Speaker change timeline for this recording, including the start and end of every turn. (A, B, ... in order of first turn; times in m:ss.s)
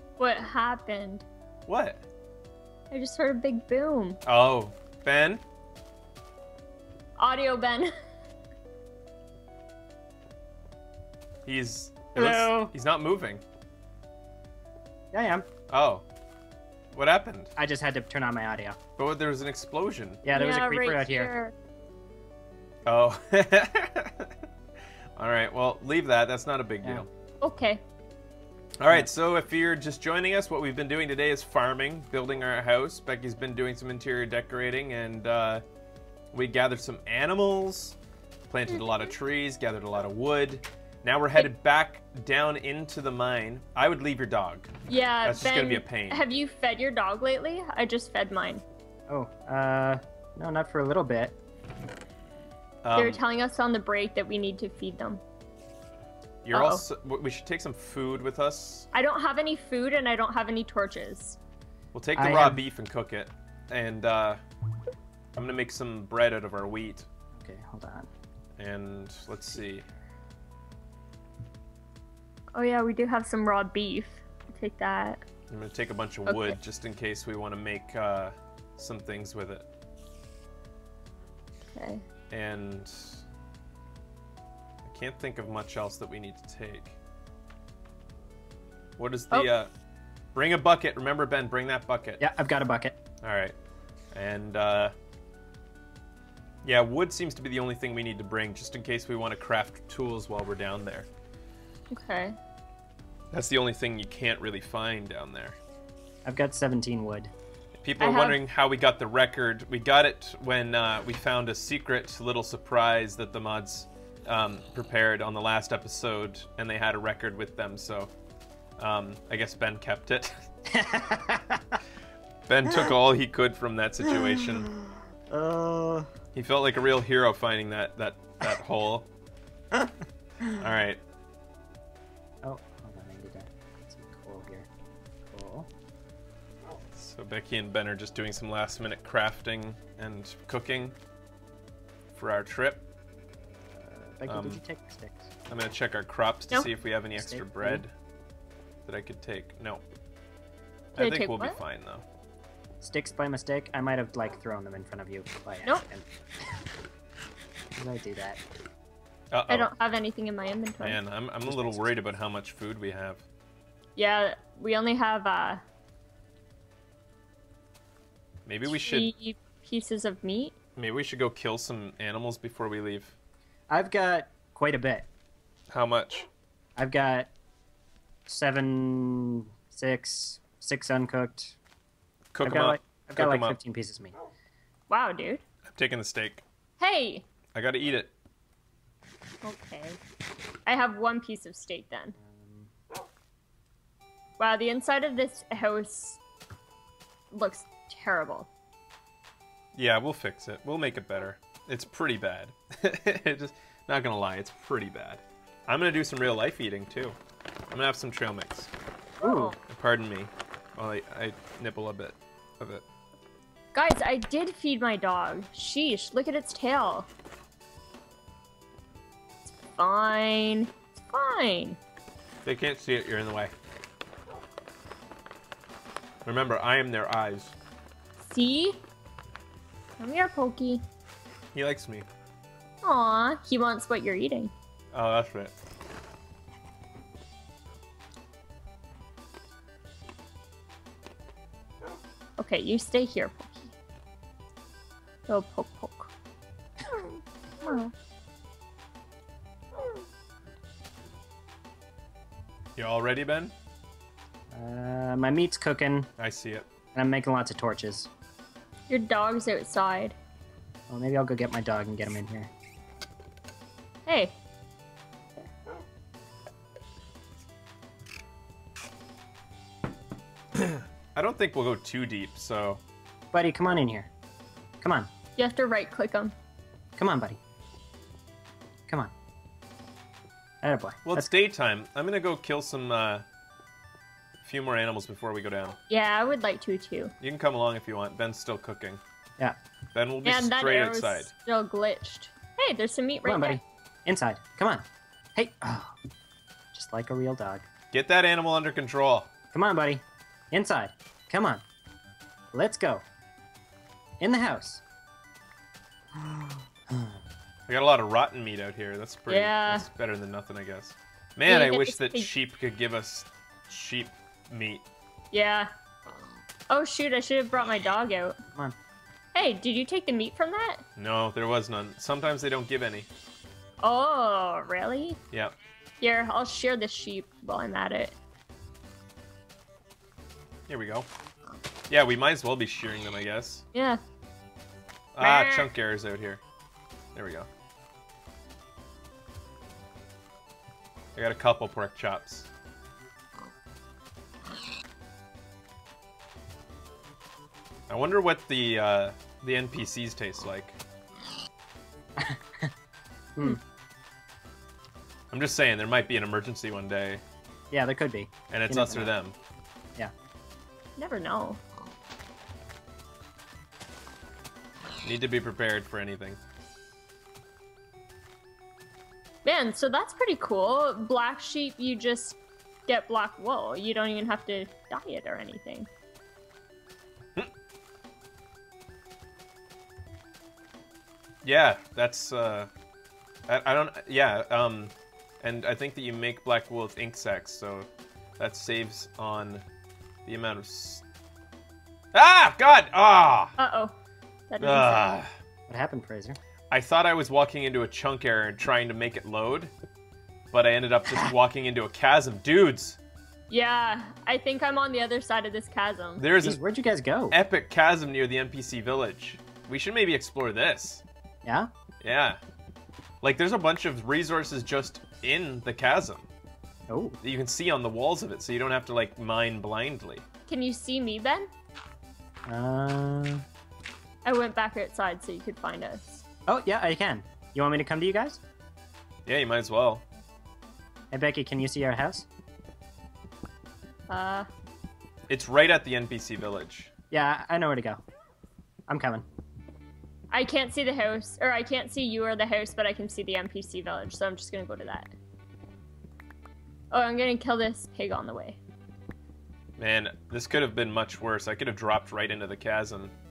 0:00.2-0:01.2 A
0:01.7-0:02.0 B
0:02.9-0:04.2 A
0:04.2-0:05.4 B
0:07.2-0:07.9 A
0:11.4-0:13.4 B
0:12.1-0:12.7 C
0:15.1-0:15.4 C
0:15.7-0:16.0 B
0:16.9-0:17.5 B
0:17.6-0:18.8 C
0:19.0-0:20.2 B
0:20.2-0:21.3 C
0:20.3-0:21.5 A
0:22.8-0:24.3 B
0:25.2-0:27.1 B
0:27.4-0:27.8 A
0:28.8-0:35.6 B
0:36.3-0:38.0 B
0:38.5-0:44.7 B
0:44.9-0:48.6 A
0:45.2-0:46.2 B
0:49.1-0:51.3 C
0:52.8-0:53.2 B
0:53.0-0:55.2 A
0:56.4-0:58.9 B
0:56.5-0:56.8 A
0:58.9-1:01.4 A
1:01.9-1:04.4 B
1:02.2-1:02.6 C
1:05.4-1:07.1 B
1:07.4-1:08.1 C
1:08.6-1:09.8 B
1:12.5-1:15.2 A
1:15.5-1:19.6 B
1:16.3-1:16.6 A
1:21.7-1:22.0 A
1:22.3-1:23.2 B
1:24.8-1:27.0 B
1:29.0-1:29.7 B
1:30.3-1:32.2 B
1:32.2-1:33.0 C
1:33.2-1:33.6 B
1:34.1-1:34.9 B
1:36.6-1:41.1 B
1:41.9-1:42.4 A
1:43.3-1:45.6 B
1:46.2-1:47.3 C
1:47.8-1:58.1 B
1:48.0-1:48.4 A
1:58.8-2:00.4 B
2:00.7-2:01.8 C
2:02.5-2:04.7 B
2:02.6-2:02.9 C
2:04.0-2:06.1 C
2:06.3-2:09.1 B
2:09.7-2:10.6 C
2:10.6-2:11.0 B
2:12.4-2:14.7 C
2:15.3-2:15.7 C
2:16.9-2:21.0 B
2:22.1-2:22.8 B
2:23.8-2:25.3 C
2:24.3-2:24.6 B
2:25.5-2:27.9 B
2:27.1-2:27.8 C
2:28.8-2:29.8 B
2:31.0-2:32.0 B
2:31.0-2:31.6 A
2:32.8-2:36.0 C
2:37.7-2:38.4 C
2:39.3-2:39.7 B
2:39.5-2:41.0 A
2:40.8-2:43.2 B
2:41.4-2:42.0 C
2:44.0-2:45.6 A
2:48.4-2:49.1 B
2:48.7-2:50.5 A
2:50.8-2:53.2 B
2:53.7-2:55.1 C
2:55.7-2:56.3 B
2:56.8-2:57.3 C
2:58.3-3:01.6 C
3:02.3-3:03.6 B
3:02.4-3:04.1 C
3:04.9-3:05.4 A
3:05.7-3:06.4 B
3:06.8-3:07.2 A
3:07.5-3:08.1 B
3:09.4-3:10.0 A
3:10.6-3:12.1 A
3:12.2-3:12.7 C
3:14.4-3:16.2 A
3:17.3-3:18.5 A
3:19.8-3:27.2 B
3:27.7-3:28.7 B
3:29.2-3:29.6 A
3:29.2-3:29.6 C
3:29.6-3:32.8 B
3:33.7-3:37.1 A
3:39.8-3:41.8 A
3:42.4-3:43.5 B
3:46.2-3:47.5 B
3:48.2-3:48.8 A
3:50.0-3:50.8 A
3:51.5-3:52.0 B
3:52.8-3:54.5 A
3:54.9-3:55.5 B
4:02.4-4:03.7 A
4:05.3-4:06.1 A
4:07.6-4:07.9 A
4:12.8-4:13.5 B
4:14.5-4:16.1 C
4:16.2-4:16.7 B
4:16.9-4:18.1 C
4:18.9-4:20.2 A
4:20.9-4:22.5 C
4:24.1-4:24.3 A
4:30.6-4:32.8 B
4:33.3-4:34.1 C
4:34.8-4:35.1 C
4:35.4-4:36.3 A
4:37.0-4:37.4 C
4:40.6-4:41.3 C
4:41.0-4:43.2 B
4:44.4-4:45.8 B
4:45.9-4:47.1 A
4:47.2-4:49.0 B
4:49.9-4:51.3 B
4:50.2-4:53.6 A
4:53.2-4:56.0 C
4:56.7-4:57.6 C
4:57.9-4:59.3 B
4:59.5-5:01.6 C
5:02.5-5:03.0 C
5:04.2-5:04.8 C
5:06.1-5:07.2 C
5:07.7-5:14.8 B
5:09.3-5:09.8 A
5:11.5-5:12.3 A
5:15.3-5:15.7 A
5:16.7-5:18.4 A
5:19.3-5:20.8 A
5:21.0-5:23.1 B
5:23.8-5:25.2 A
5:26.0-5:28.2 A
5:30.7-5:31.1 B
5:31.9-5:33.6 B
5:33.7-5:34.0 A
5:35.1-5:36.4 B
5:35.2-5:35.7 A
5:37.1-5:37.5 B
5:41.2-5:42.5 B
5:47.9-5:50.8 B
5:52.2-5:52.7 C
5:55.3-5:57.2 B
5:57.7-5:59.1 C
5:58.5-5:59.3 B
6:01.0-6:01.6 A
6:05.0-6:06.4 B
6:09.4-6:15.9 A
6:21.4-6:22.7 B
6:23.5-6:29.6 B
6:30.2-6:31.0 B
6:32.1-6:33.6 B
6:33.6-6:33.9 A
6:34.5-6:35.1 A
6:34.6-6:35.3 B
6:35.7-6:36.4 C
6:36.7-6:39.7 B
6:40.5-6:43.0 B
6:43.5-6:46.2 A
6:46.2-6:46.6 B
6:46.3-6:47.3 C
6:47.3-6:51.0 B
6:51.4-6:51.7 C
6:52.0-6:52.4 B
6:53.2-6:56.3 B
6:56.9-6:57.2 C
6:57.2-7:00.2 B
7:00.5-7:01.5 A
7:02.5-7:03.4 C
7:04.2-7:06.2 A
7:06.5-7:08.4 C
7:09.2-7:10.0 B
7:11.1-7:12.3 C
7:14.1-7:14.5 A
7:15.3-7:16.9 B
7:17.1-7:18.0 C
7:18.9-7:19.2 C
7:20.3-7:25.1 A
7:26.9-7:28.6 A
7:29.8-7:33.1 B